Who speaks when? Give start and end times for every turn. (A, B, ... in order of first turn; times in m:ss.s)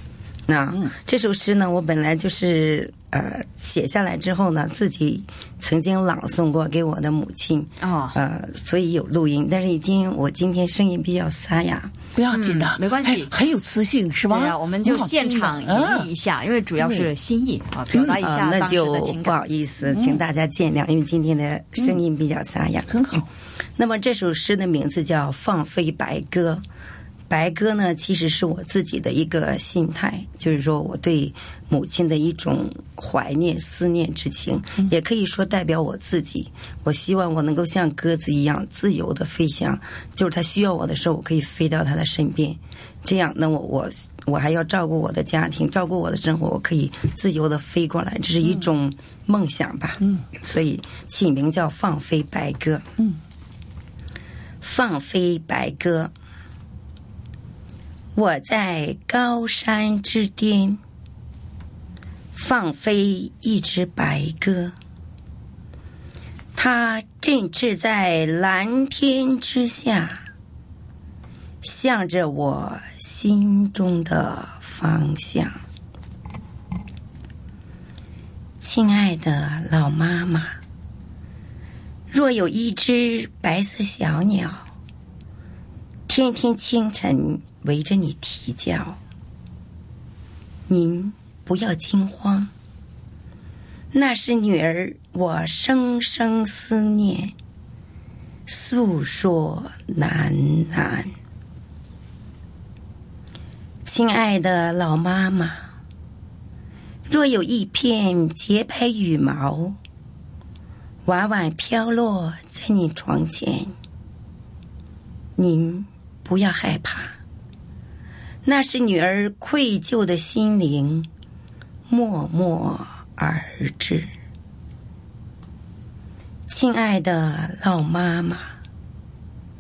0:00.5-0:11.9 A
0:07.8-0:08.2 B
0:12.1-0:16.1 C
0:12.3-0:13.3 B
0:14.3-0:19.4 B
0:16.8-0:17.1 C
0:17.9-0:18.2 C
0:18.2-0:23.0 A
0:19.9-0:20.2 C
0:22.9-0:23.3 C
0:23.8-0:26.6 A
0:27.3-0:52.8 A
0:50.0-0:50.2 C
0:54.6-0:56.1 A
0:58.1-1:00.8 A
1:02.3-1:04.7 A
1:06.5-1:10.2 A
1:11.6-1:15.6 A
1:18.6-1:20.6 A
1:22.1-1:24.6 A
1:26.1-1:29.0 A
1:30.7-1:32.5 A
1:33.9-1:37.3 A
1:38.5-1:41.1 A
1:43.8-1:45.6 A
1:47.1-1:49.8 A
1:51.0-1:53.7 A
1:55.4-1:57.1 A
1:58.4-2:01.1 A
2:01.9-2:04.1 A
2:06.5-2:08.5 A